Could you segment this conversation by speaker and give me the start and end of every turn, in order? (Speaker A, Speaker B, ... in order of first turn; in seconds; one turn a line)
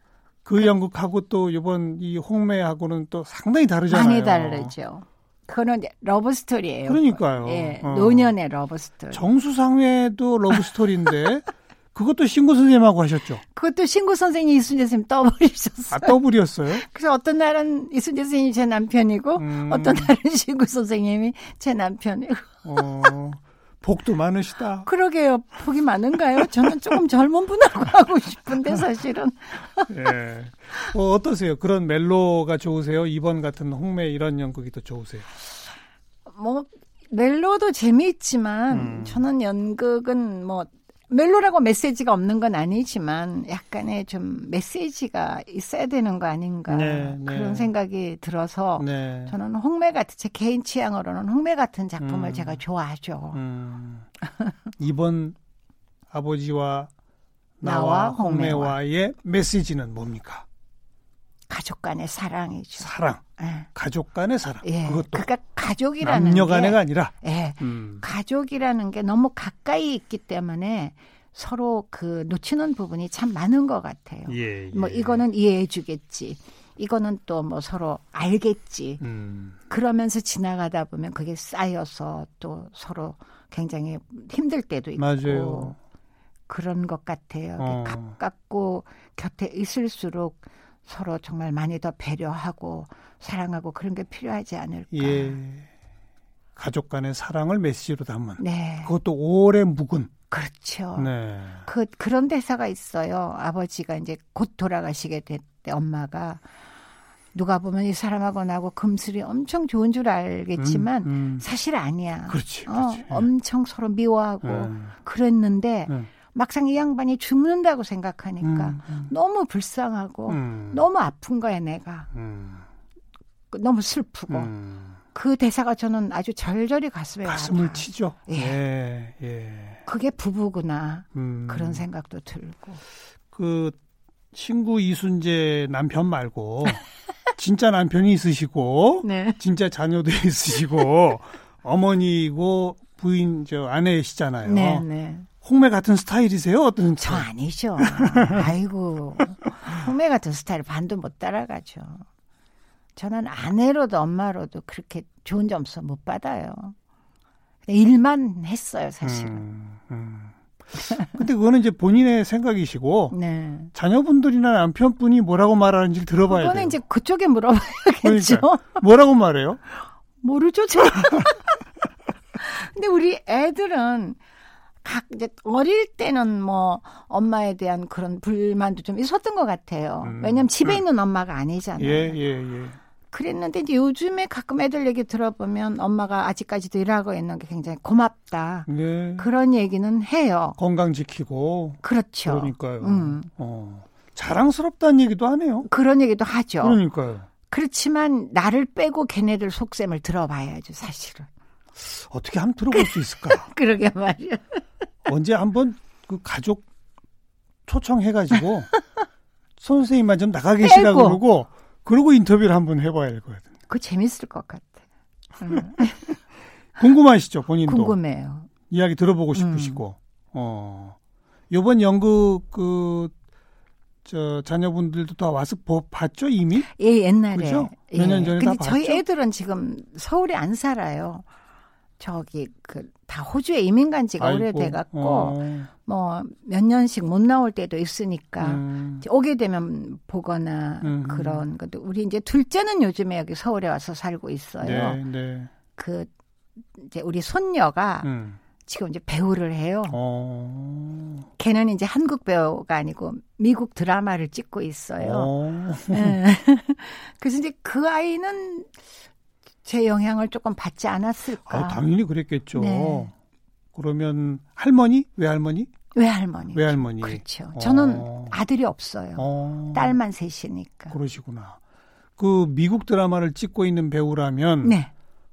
Speaker A: 0.5-4.7
Speaker B: 3.9-9.2
Speaker A: 6.9-8.3
Speaker A: 9.1-13.4
Speaker B: 13.5-16.2
Speaker A: 15.9-16.8
Speaker B: 16.7-23.1
Speaker A: 19.4-20.1
Speaker A: 22.6-24.9
Speaker B: 24.9-29.9
Speaker A: 29.9-35.3
Speaker B: 36.3-53.4
Speaker A: 38.7-39.2
Speaker A: 46.7-47.7
Speaker A: 48.8-49.3
Speaker A: 52.0-52.6
Speaker A: 53.3-54.1
Speaker A: 54.8-55.4
Speaker A: 56.1-56.9
Speaker A: 57.6-60.5
Speaker B: 57.6-58.8
Speaker B: 61.5-63.7
Speaker A: 62.8-65.3
Speaker B: 64.6-79.0
Speaker A: 66.0-68.0
Speaker A: 74.3-75.2
Speaker A: 79.0-79.6
Speaker B: 79.7-85.8
Speaker A: 85.0-85.8
Speaker B: 86.5-95.4
Speaker A: 87.6-88.2
Speaker A: 94.9-95.7
Speaker A: 96.6-100.1
Speaker B: 98.4-98.9
Speaker B: 100.3-101.1
Speaker A: 101.0-101.6
Speaker B: 101.6-106.4
Speaker B: 107.3-122.1
Speaker A: 110.6-111.5
Speaker A: 112.3-113.3
Speaker A: 114.4-114.9
Speaker A: 118.4-119.1
Speaker A: 120.3-120.8
Speaker A: 122.1-122.7
Speaker B: 123.5-124.5
Speaker A: 124.3-125.0
Speaker B: 125.1-128.6
Speaker A: 127.2-129.8
Speaker B: 129.9-132.8
Speaker A: 131.2-131.9
Speaker A: 133.3-133.8
Speaker A: 134.3-136.8
Speaker A: 137.4-144.9
Speaker B: 139.0-139.4
Speaker B: 144.4-145.3
Speaker A: 145.4-148.5
Speaker B: 147.0-152.1
Speaker B: 153.0-156.8
Speaker B: 157.7-159.4
Speaker A: 159.0-163.2
Speaker B: 163.1-163.7
Speaker A: 163.7-166.8
Speaker B: 166.3-168.8
Speaker A: 168.0-169.6
Speaker B: 170.2-171.6
Speaker B: 172.4-174.2
Speaker B: 174.8-182.2
Speaker A: 180.0-180.8
Speaker A: 181.8-182.8
Speaker B: 183.1-190.6
Speaker A: 188.7-189.3
Speaker A: 190.6-195.7
Speaker B: 191.8-193.3
Speaker B: 195.7-196.8
Speaker A: 196.6-197.3
Speaker B: 197.5-201.3
Speaker A: 201.8-203.5
Speaker B: 202.7-204.6
Speaker A: 205.1-206.7
Speaker A: 207.7-208.7
Speaker A: 209.6-213.5
Speaker B: 210.6-211.2
Speaker B: 213.7-214.8
Speaker B: 215.4-216.2
Speaker A: 216.8-218.0
Speaker B: 217.7-218.5
Speaker A: 218.7-221.0
Speaker B: 219.3-219.8
Speaker A: 221.5-223.1
Speaker A: 224.1-226.7
Speaker B: 226.6-231.2
Speaker A: 227.3-229.0
Speaker B: 232.0-245.0
Speaker A: 234.2-235.7
Speaker A: 238.4-239.0
Speaker A: 240.8-241.4
Speaker A: 244.6-245.5
Speaker B: 245.8-246.1
Speaker B: 246.8-248.1
Speaker A: 248.0-248.4
Speaker B: 248.7-250.0
Speaker A: 249.9-251.2
Speaker B: 251.4-255.3
Speaker A: 255.0-256.2
Speaker B: 255.9-258.7
Speaker B: 259.6-261.8
Speaker A: 261.5-263.1
Speaker B: 262.6-263.1
Speaker A: 263.7-265.7
Speaker B: 265.9-270.9
Speaker A: 266.5-268.4
Speaker A: 269.2-270.0
Speaker A: 270.9-271.6
Speaker A: 272.2-274.8
Speaker B: 274.6-274.9